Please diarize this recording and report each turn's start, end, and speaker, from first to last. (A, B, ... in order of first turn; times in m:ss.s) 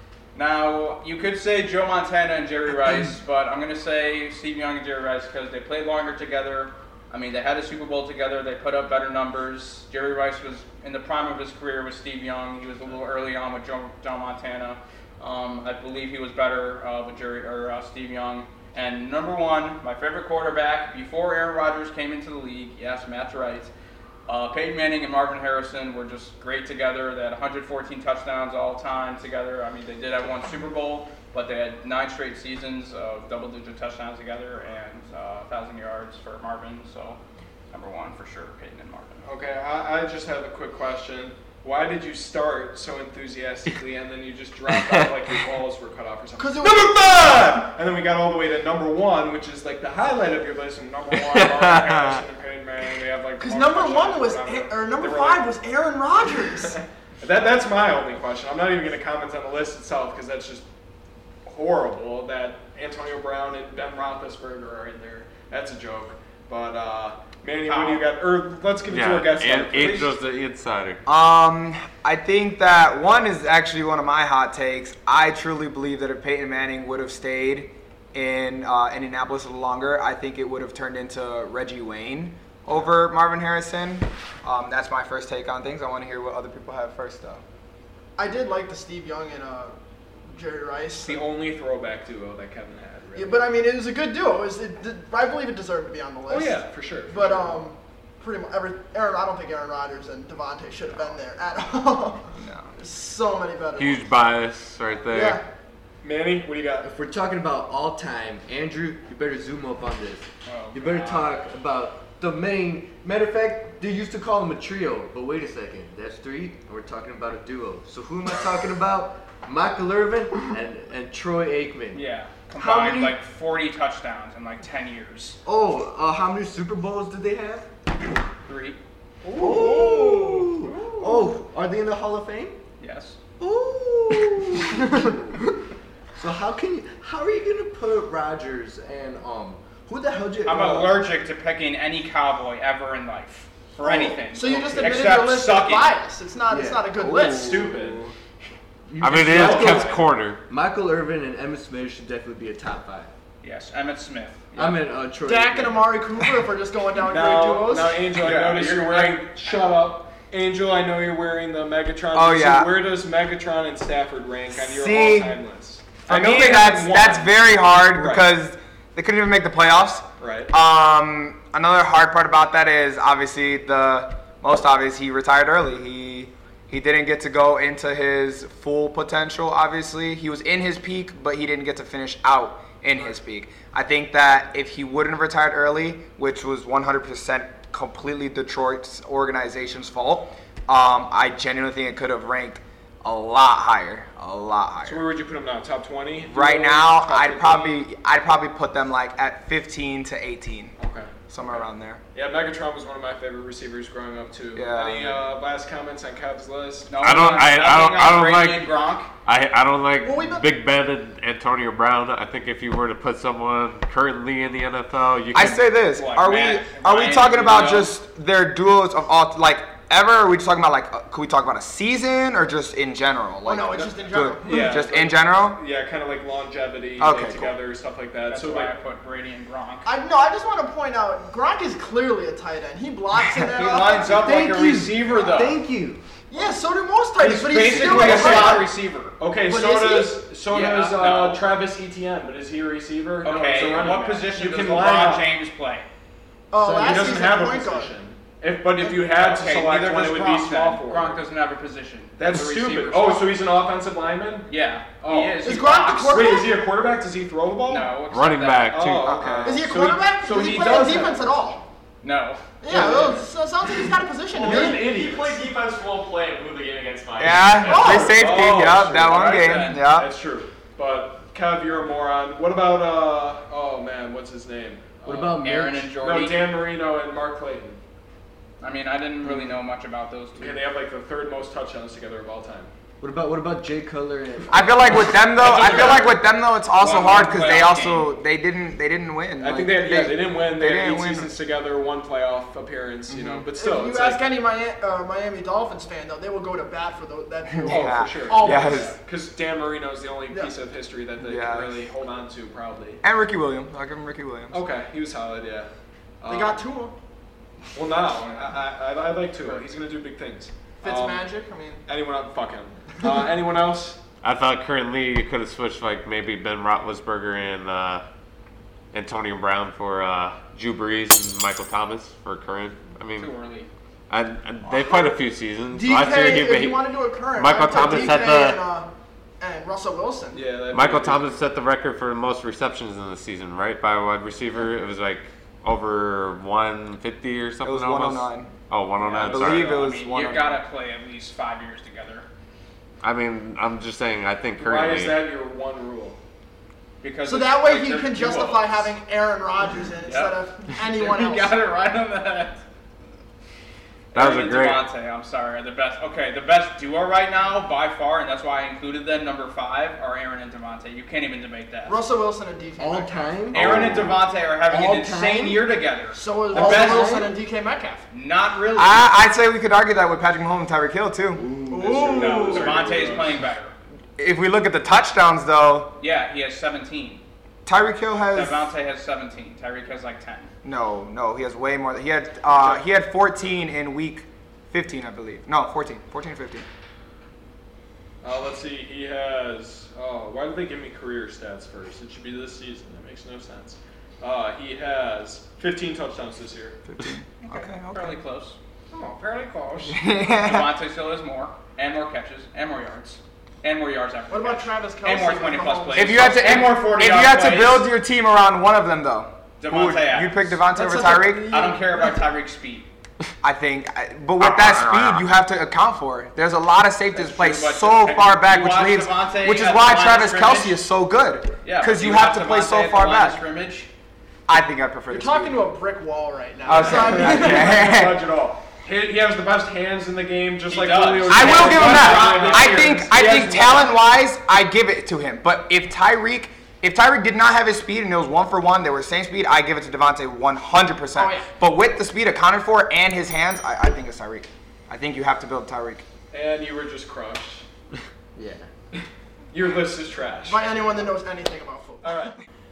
0:00.3-0:23.7 A
0:24.3-0:37.2 A
0:37.7-0:39.2 A
0:39.2-0:55.6 B
0:44.7-0:45.1 C
0:46.4-0:47.6 D
0:51.1-0:52.2 C
0:53.4-0:56.8 D
0:56.4-1:00.7 B
1:01.5-1:10.2 B
1:07.7-1:08.1 A
1:08.9-1:11.0 C
1:11.1-1:27.4 E
1:28.2-1:29.8 D
1:30.3-1:31.2 D
1:31.0-1:33.5 B
1:33.2-1:44.1 D
1:36.3-1:37.7 B
1:42.4-1:42.7 E
1:43.8-1:45.4 C
1:45.1-1:45.4 D
1:46.0-1:46.9 B
1:46.8-2:03.2 F
1:50.5-1:51.4 A
2:01.9-2:05.4 A
2:05.5-2:07.7 F
2:08.4-2:08.8 A
2:09.2-2:10.3 B
2:09.4-2:12.6 F
2:09.5-2:10.0 A
2:09.6-2:10.2 D
2:10.7-2:11.2 A
2:12.8-2:13.2 A
2:13.4-2:15.4 F
2:16.2-2:21.1 F
2:20.4-2:26.0 A
2:23.8-2:25.2 B
2:24.3-2:27.6 D
2:26.5-2:28.1 F
2:27.3-2:28.1 B
2:28.9-2:30.0 F
2:29.0-2:30.4 C
2:29.1-2:30.0 B
2:30.5-2:33.1 F
2:33.4-2:34.8 A
2:34.5-2:35.9 F
2:35.2-2:38.1 D
2:37.0-2:48.3 B
2:38.2-2:39.5 A
2:42.1-2:42.8 E
2:44.6-2:45.4 E
2:46.0-3:15.1 E
2:50.2-2:50.5 B
3:14.8-3:17.9 B
3:16.3-3:20.8 E
3:20.8-3:27.0 B
3:21.3-3:22.0 E
3:24.5-3:25.2 E
3:26.9-3:29.1 A
3:27.0-3:35.6 C
3:30.0-3:30.5 D
3:35.3-3:45.6 E
3:36.0-3:38.0 A
3:43.4-3:44.8 D
3:44.4-3:48.7 B
3:47.0-3:47.6 E
3:48.3-3:49.9 A
3:49.8-3:54.1 D
3:53.5-3:55.6 A
3:54.0-3:56.0 F
3:56.3-3:58.7 D
3:57.2-3:59.2 A
3:57.7-3:58.6 B
3:59.2-4:05.3 B
3:59.5-4:00.2 D
4:00.5-4:01.4 A
4:03.2-4:05.9 A
4:06.5-4:08.0 D
4:06.6-4:11.2 B
4:09.0-4:13.3 A
4:12.2-4:14.5 B
4:14.5-4:16.4 A
4:15.1-4:18.0 B
4:15.4-4:16.6 D
4:17.7-4:18.8 A
4:18.1-4:19.2 C
4:18.7-4:21.6 B
4:19.0-4:19.6 E
4:19.4-4:21.6 D
4:22.0-4:22.4 A
4:22.6-4:24.8 D
4:22.7-4:23.3 B
4:24.3-4:25.4 B
4:24.4-4:28.2 G
4:27.2-4:30.1 E
4:27.7-4:28.3 D
4:27.7-4:35.4 B
4:28.9-4:29.8 A
4:35.0-4:35.9 F
4:35.4-4:36.4 A
4:35.9-4:37.8 B
4:38.6-4:40.6 A
4:40.4-4:42.7 B
4:43.0-4:45.3 F
4:44.5-4:51.3 E
4:45.4-4:46.1 B
4:45.4-4:46.2 A
4:46.8-4:48.1 A
4:49.4-4:54.3 B
4:53.1-4:53.5 E
4:53.6-4:59.0 D
4:57.5-4:59.0 E
4:57.7-5:03.0 B
5:00.3-5:00.6 D
5:01.2-5:01.8 E
5:03.0-5:04.6 E
5:04.5-5:05.7 B
5:06.2-5:06.6 B
5:06.3-5:07.0 D
5:07.7-5:11.3 B
5:10.8-5:11.8 D
5:11.9-5:14.0 B
5:14.2-5:18.0 C
5:18.9-5:23.3 C
5:23.2-5:23.7 A
5:24.1-5:26.8 C
5:24.8-5:25.1 D
5:25.7-5:30.4 D
5:27.4-5:28.6 C
5:30.3-5:31.4 B
5:30.7-5:39.8 C
5:37.6-5:38.5 E
5:39.0-5:42.3 A
5:39.2-5:40.6 E
5:43.0-5:45.2 C
5:44.6-5:46.2 B
5:47.0-5:48.9 A
5:47.2-5:51.6 D
5:50.0-5:52.6 A
5:54.1-6:02.0 A
5:54.1-5:54.8 C
6:01.9-6:03.4 D
6:02.8-6:03.7 F
6:03.5-6:07.1 A
6:03.5-6:04.2 C
6:04.7-6:05.6 F
6:06.1-6:08.1 D
6:06.5-6:07.3 F
6:08.1-6:09.1 A
6:08.7-6:11.4 E
6:11.3-6:12.7 F
6:11.7-6:12.8 D
6:12.1-6:13.4 B
6:12.1-6:13.7 A
6:14.2-6:16.0 E
6:16.0-6:17.2 A
6:17.6-6:18.7 E
6:18.3-6:20.5 A
6:20.6-6:26.7 E
6:22.5-6:22.8 B
6:28.2-6:36.8 B
6:36.9-6:38.2 E
6:37.4-6:38.6 A
6:38.9-6:39.9 B
6:39.0-6:39.8 D
6:39.8-6:40.7 E
6:40.3-6:47.9 A
6:44.3-6:46.5 D
6:45.9-6:51.8 E
6:49.6-6:52.9 A
6:50.8-6:51.7 F
6:53.4-7:03.4 E
6:54.4-6:55.3 C
6:57.1-7:00.8 A
7:01.6-7:03.9 A
7:04.5-7:05.6 E
7:05.1-7:07.8 D
7:06.7-7:08.2 E
7:06.7-7:13.9 B
7:10.7-7:13.1 A
7:11.3-7:26.1 E
7:21.2-7:21.5 D
7:26.3-7:27.7 B
7:28.4-7:28.7 F
7:28.9-7:31.1 B
7:30.5-7:32.1 D
7:32.0-7:32.4 B